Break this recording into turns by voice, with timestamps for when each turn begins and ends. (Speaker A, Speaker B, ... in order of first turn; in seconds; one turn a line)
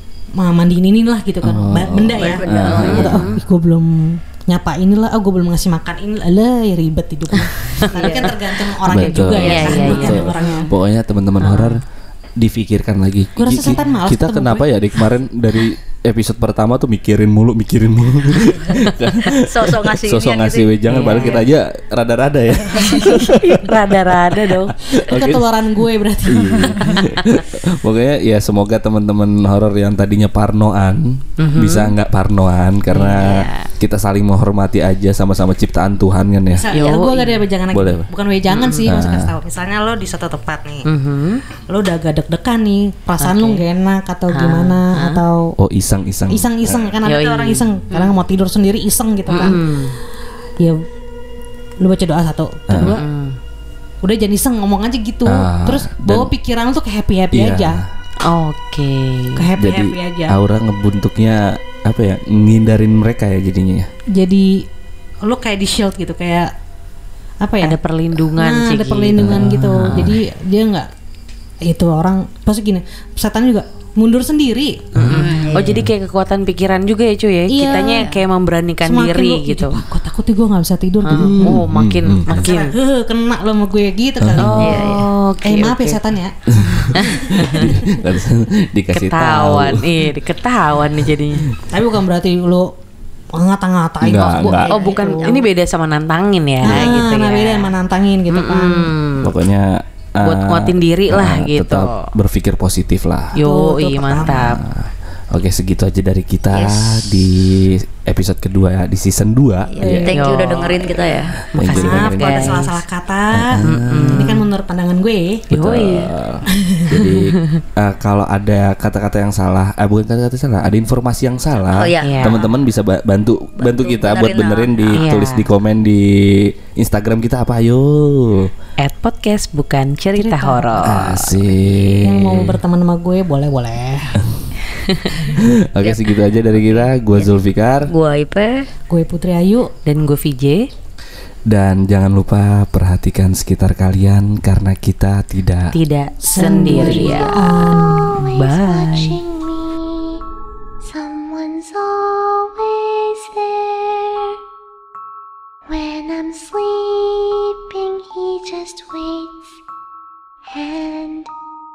Speaker A: 0.3-10.7
Speaker B: 1.4-3.2
Speaker C: 2.1-3.2
Speaker D: 2.5-3.4
Speaker D: 7.4-8.2
Speaker C: 7.9-8.3
Speaker D: 8.9-10.7
Speaker B: 8.9-11.8
Speaker C: 9.4-10.2
Speaker D: 11.4-11.8
Speaker B: 12.4-25.5
Speaker A: 13.4-14.7
Speaker D: 13.6-13.9
Speaker C: 19.3-21.2
Speaker D: 20.9-21.4
Speaker D: 22.9-24.7
Speaker A: 25.0-27.0
Speaker B: 26.3-36.7
Speaker D: 26.9-27.2
Speaker D: 31.4-31.9
Speaker D: 32.9-33.7
Speaker A: 36.5-40.9
Speaker D: 36.7-37.5
Speaker B: 37.7-38.1
Speaker D: 38.5-38.9
Speaker B: 38.8-39.3
Speaker D: 40.9-41.4
Speaker A: 41.7-45.5
Speaker D: 43.2-43.6
Speaker D: 44.3-45.2
Speaker B: 45.6-47.0
Speaker A: 46.3-49.6
Speaker D: 47.0-48.1
Speaker D: 49.3-50.0
Speaker A: 51.8-53.0
Speaker B: 52.7-53.0
Speaker D: 52.8-53.4
Speaker A: 54.0-57.8
Speaker B: 55.3-56.3
Speaker B: 57.3-57.9
Speaker D: 58.3-59.4
Speaker A: 59.4-60.4
Speaker B: 59.6-63.9
Speaker A: 64.1-64.6
Speaker A: 65.2-66.5
Speaker A: 67.4-67.8
Speaker D: 67.6-70.2
Speaker A: 68.3-70.9
Speaker B: 69.2-70.2
Speaker A: 71.6-74.8
Speaker B: 75.0-75.9
Speaker D: 75.0-79.8
Speaker C: 75.2-75.7
Speaker A: 77.5-78.1
Speaker A: 78.8-81.6
Speaker D: 81.0-82.7
Speaker B: 81.1-82.4
Speaker A: 82.3-84.9
Speaker B: 84.2-84.9
Speaker D: 84.4-86.0
Speaker C: 84.6-85.0
Speaker A: 85.4-87.8
Speaker B: 86.5-89.9
Speaker D: 87.0-87.7
Speaker D: 88.9-91.5
Speaker B: 90.9-91.5
Speaker A: 91.7-92.7
Speaker A: 93.3-95.4
Speaker B: 94.0-94.8
Speaker D: 94.4-97.7
Speaker A: 96.6-98.9
Speaker B: 96.7-96.9
Speaker D: 98.3-99.3
Speaker B: 99.2-103.3
Speaker D: 100.2-102.1
Speaker A: 103.3-104.4
Speaker D: 103.3-104.6
Speaker B: 104.2-110.1
Speaker C: 106.5-107.1
Speaker C: 109.7-111.3
Speaker A: 109.8-110.2
Speaker D: 109.8-110.8
Speaker D: 111.5-112.7
Speaker B: 111.6-112.7
Speaker A: 111.6-113.5
Speaker B: 113.3-114.3
Speaker D: 113.6-114.4
Speaker A: 114.1-115.5
Speaker B: 115.5-128.5
Speaker D: 115.5-116.1
Speaker A: 116.6-116.9
Speaker D: 117.0-117.6
Speaker C: 121.7-122.5
Speaker D: 122.0-122.4
Speaker C: 123.6-125.0
Speaker D: 125.0-125.5
Speaker D: 128.8-131.3
Speaker A: 130.2-130.9
Speaker B: 130.8-132.6
Speaker A: 132.0-134.2
Speaker B: 134.2-134.5
Speaker D: 134.6-135.2
Speaker B: 135.3-137.9
Speaker C: 135.8-137.3
Speaker C: 137.9-138.6
Speaker A: 138.9-139.7
Speaker D: 139.8-140.6
Speaker B: 141.5-145.7
Speaker D: 145.7-147.3
Speaker A: 146.2-148.2
Speaker C: 146.4-147.3
Speaker E: 146.9-150.2
Speaker D: 148.2-149.2
Speaker E: 150.8-154.4
Speaker E: 155.7-159.6
Speaker E: 160.5-161.3